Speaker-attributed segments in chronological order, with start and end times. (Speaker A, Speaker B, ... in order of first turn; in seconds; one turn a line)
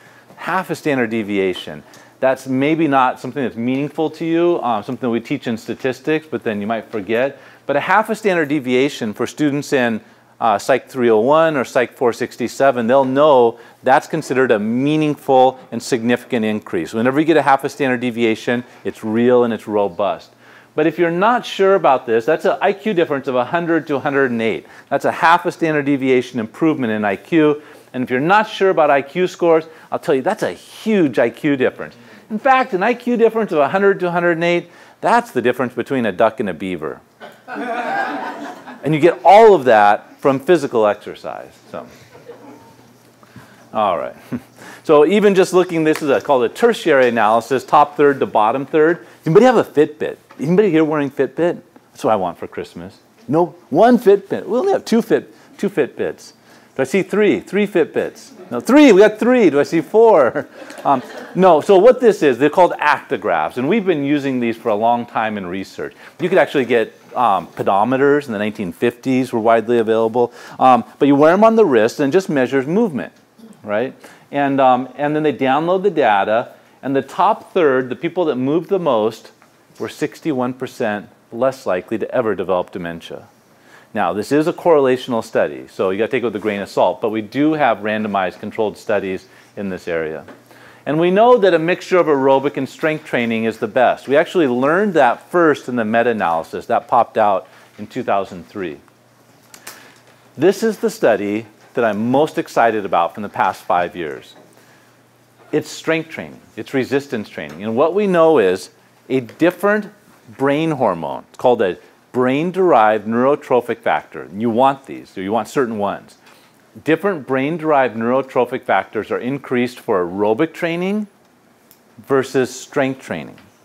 Speaker A: 0.4-37.0
Speaker A: 38.8-41.9
Speaker A: 43.7-83.3
Speaker A: 83.9-90.3
Speaker A: 90.9-98.8
Speaker A: 100.4-104.3
Speaker A: 105.5-116.2
Speaker A: 116.8-121.1
Speaker A: 122.0-123.4